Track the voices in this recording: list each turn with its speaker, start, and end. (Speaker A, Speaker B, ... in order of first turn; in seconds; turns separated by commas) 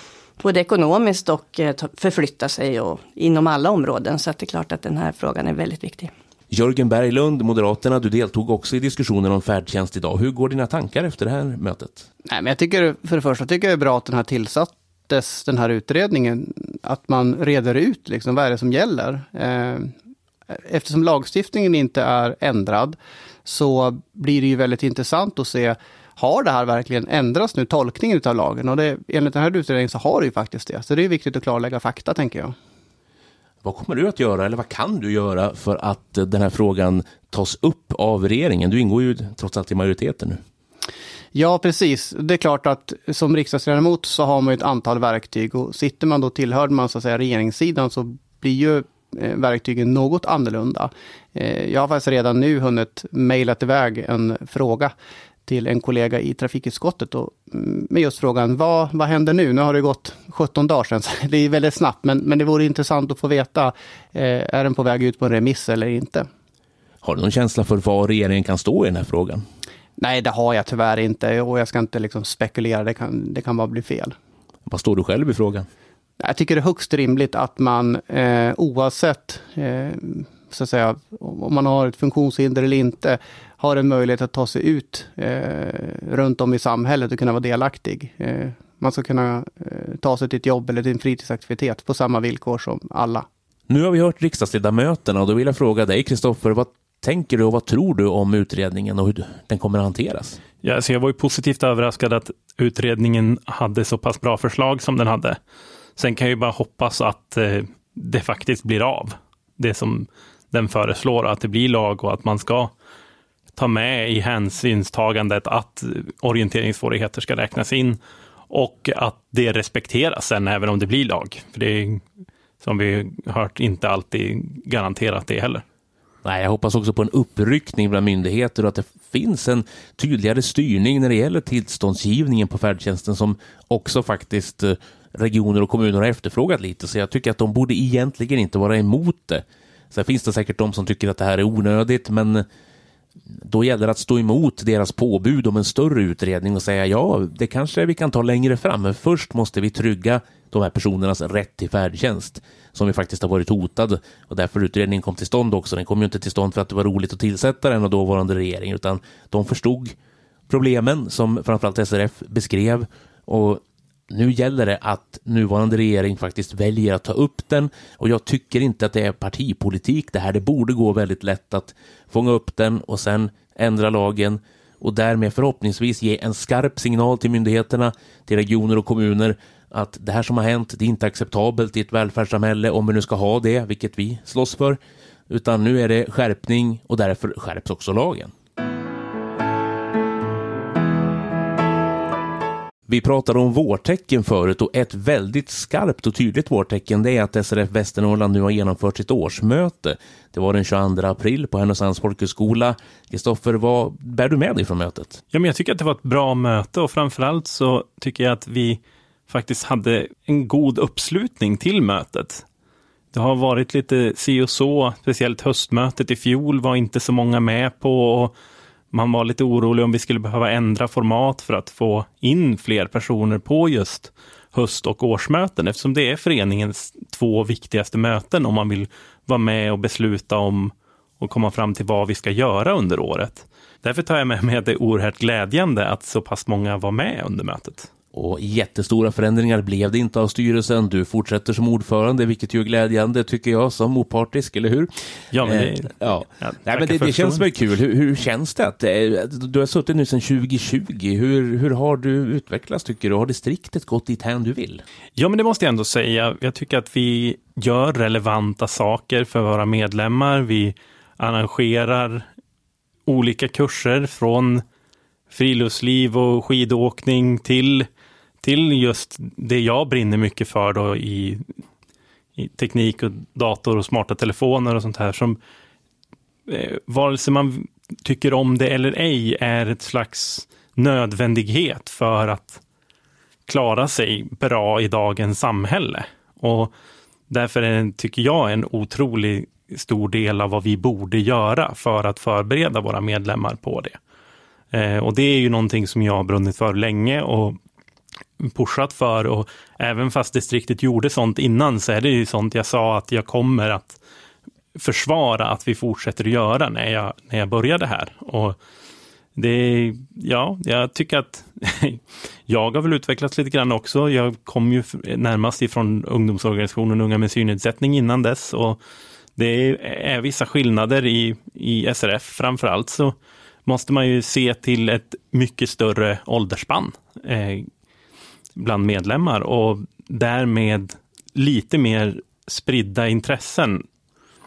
Speaker A: 0.4-6.1, Speaker B: 6.5-12.1, Speaker C: 12.2-19.9, Speaker C: 20.5-32.5, Speaker B: 33.6-40.4, Speaker C: 41.3-54.9, Speaker C: 55.5-66.3, Speaker B: 67.0-69.4, Speaker C: 70.0-74.1, Speaker B: 74.7-75.7, Speaker C: 76.2-93.2, Speaker B: 93.7-100.4, Speaker D: 100.6-105.4, Speaker D: 106.0-112.7, Speaker D: 113.5-118.0, Speaker D: 118.5-122.0, Speaker D: 122.6-125.6, Speaker B: 126.2-142.4, Speaker B: 143.4-159.9, Speaker B: 160.5-188.3, Speaker B: 192.9-205.2, Speaker D: 205.3-212.4, Speaker D: 213.1-218.3, Speaker D: 218.9-237.9, Speaker B: 238.1-254.8, Speaker D: 245.3-247.4, Speaker D: 255.2-262.3, Speaker D: 263.1-264.6, Speaker D: 265.3-267.9, Speaker D: 268.4-271.4, Speaker D: 272.4-275.4, Speaker D: 276.5-282.6, Speaker D: 283.5-286.7, Speaker D: 287.3-294.0, Speaker D: 294.7-297.6, Speaker D: 298.4-304.0, Speaker D: 304.8-308.6, Speaker D: 309.4-318.8, Speaker D: 319.4-323.1, Speaker D: 323.6-327.7, Speaker D: 328.6-333.8